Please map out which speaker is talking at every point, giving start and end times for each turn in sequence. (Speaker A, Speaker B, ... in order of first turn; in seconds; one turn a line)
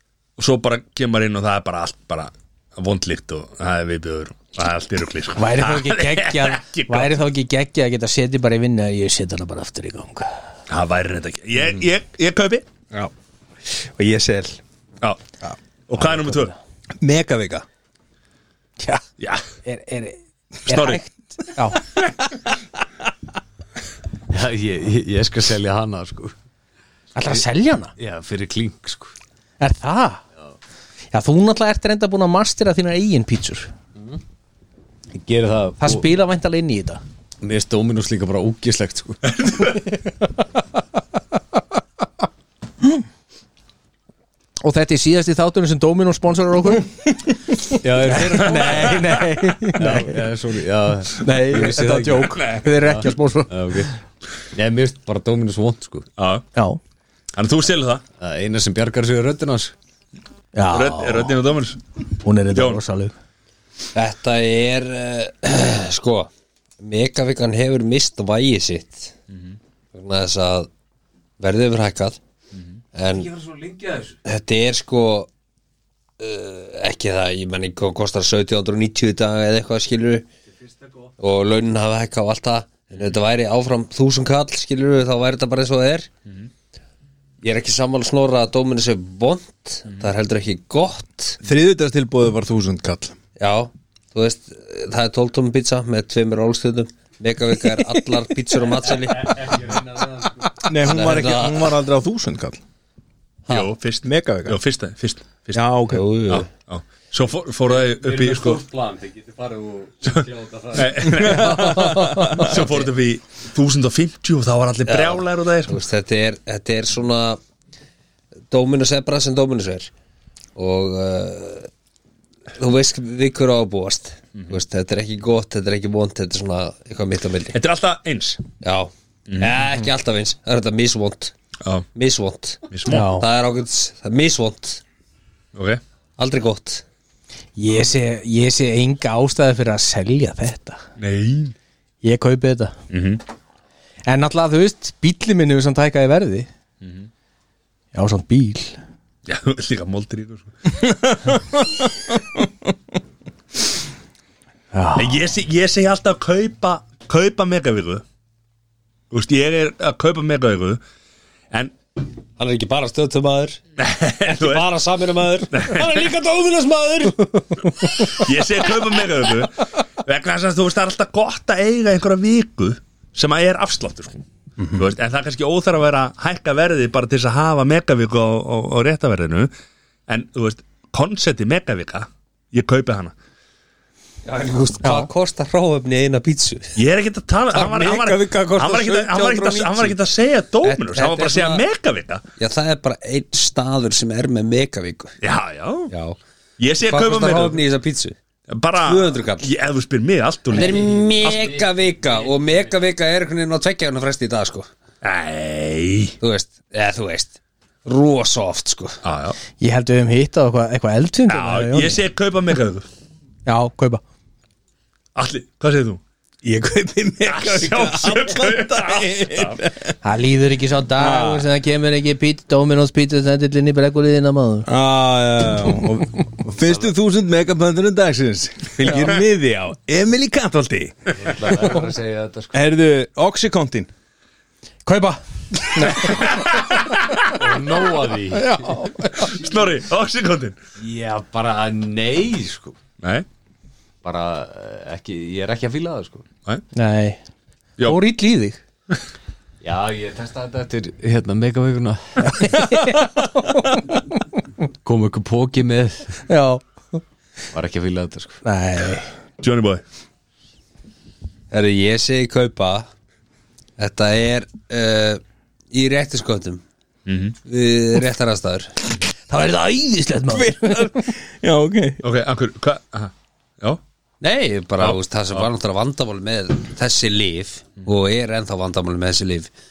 Speaker A: 0.4-7.2
Speaker B: 5.3-10.3
Speaker A: 10.7-12.7
Speaker C: 13.7-14.6
Speaker A: 15.9-16.5
Speaker C: 17.0-17.6
Speaker A: 19.2-19.4
Speaker B: 19.6-21.0
Speaker A: 20.7-21.0
Speaker C: 20.8-21.0
Speaker B: 21.5-21.8
Speaker D: 24.3-26.3
Speaker B: 27.1-27.9
Speaker D: 28.0-29.1
Speaker B: 29.6-30.2
Speaker B: 31.1-33.7
Speaker D: 35.1-36.1
Speaker B: 35.8-37.0
Speaker D: 37.4-39.3
Speaker A: 39.3-39.9
Speaker B: 44.6-46.9
Speaker B: 47.7-50.1
Speaker D: 47.8-49.0
Speaker A: 48.4-49.1
Speaker D: 49.7-53.9
Speaker B: 51.1-53.9
Speaker A: 52.3-52.7
Speaker D: 54.5-56.1
Speaker A: 56.2-56.5
Speaker B: 56.5-56.8
Speaker A: 57.3-58.0
Speaker D: 58.2-59.7
Speaker B: 60.5-61.3
Speaker A: 60.7-61.8
Speaker B: 62.2-63.1
Speaker A: 62.5-62.8
Speaker E: 63.9-69.1
Speaker E: 69.9-70.7
Speaker E: 71.4-72.2
Speaker E: 72.9-73.3
Speaker D: 73.1-74.2
Speaker E: 74.2-75.3
Speaker E: 76.2-80.3
Speaker D: 80.7-81.1
Speaker E: 81.2-86.1
Speaker E: 87.4-91.4
Speaker C: 91.4-93.2
Speaker E: 93.4-99.5
Speaker D: 98.8-100.6
Speaker C: 100.6-102.6
Speaker E: 100.8-101.8
Speaker A: 103.5-105.7
Speaker C: 104.0-104.6
Speaker C: 105.5-106.0
Speaker E: 105.9-106.5
Speaker A: 106.3-108.6
Speaker D: 107.6-111.5
Speaker A: 110.7-115.8
Speaker B: 111.3-112.5
Speaker E: 112.5-112.8
Speaker E: 114.8-117.4
Speaker E: 118.5-119.9
Speaker E: 120.5-121.7
Speaker E: 122.6-127.6
Speaker A: 127.5-128.4
Speaker E: 128.6-131.3
Speaker A: 129.3-129.5
Speaker E: 131.9-134.8
Speaker A: 132.7-133.1
Speaker B: 132.9-133.3
Speaker A: 135.5-135.8
Speaker E: 136.2-136.8
Speaker B: 137.6-140.8
Speaker A: 141.0-141.5
Speaker B: 142.0-142.8
Speaker A: 142.9-143.2
Speaker B: 144.1-146.5
Speaker A: 146.8-147.1
Speaker B: 147.9-148.8
Speaker A: 149.3-151.4
Speaker C: 151.3-152.4
Speaker B: 154.7-155.2
Speaker A: 154.9-158.0
Speaker A: 159.1-160.8
Speaker E: 162.4-163.6
Speaker A: 163.8-164.7
Speaker E: 164.2-167.7
Speaker A: 165.5-166.1
Speaker A: 167.8-179.5
Speaker A: 180.1-183.1
Speaker E: 184.2-186.8
Speaker B: 184.8-185.1
Speaker A: 186.7-192.2
Speaker E: 187.5-189.9
Speaker E: 190.6-191.6
Speaker E: 192.4-195.2
Speaker A: 195.2-195.9
Speaker E: 195.9-196.2
Speaker A: 196.6-197.6
Speaker E: 196.8-198.2
Speaker A: 198.5-201.4
Speaker E: 198.8-199.5
Speaker E: 200.5-204.7
Speaker D: 200.7-202.5
Speaker A: 205.0-206.2
Speaker E: 206.2-209.0
Speaker A: 209.0-209.4
Speaker B: 209.6-212.0
Speaker A: 211.3-212.8
Speaker B: 213.4-214.0
Speaker A: 215.1-216.0
Speaker C: 216.4-219.9
Speaker A: 217.2-219.6
Speaker B: 220.0-224.7
Speaker C: 221.0-221.5
Speaker C: 224.7-231.1
Speaker D: 231.2-232.6
Speaker C: 232.5-233.9
Speaker B: 234.8-236.9
Speaker A: 235.8-237.4
Speaker D: 237.3-238.7
Speaker B: 238.3-239.4
Speaker A: 239.1-240.6
Speaker D: 240.8-242.8
Speaker A: 243.0-243.2
Speaker D: 244.0-246.2
Speaker B: 246.7-247.2
Speaker B: 247.8-248.6
Speaker D: 249.6-252.6
Speaker B: 252.2-254.0
Speaker D: 254.8-256.2
Speaker B: 256.3-257.0
Speaker D: 257.5-258.4
Speaker B: 258.4-259.1
Speaker A: 259.4-259.8
Speaker E: 261.5-262.9
Speaker E: 263.8-266.6
Speaker A: 267.1-267.4
Speaker E: 267.4-268.9
Speaker B: 269.3-270.9
Speaker C: 270.3-272.0
Speaker A: 272.0-273.8
Speaker E: 274.2-279.5
Speaker A: 274.8-275.5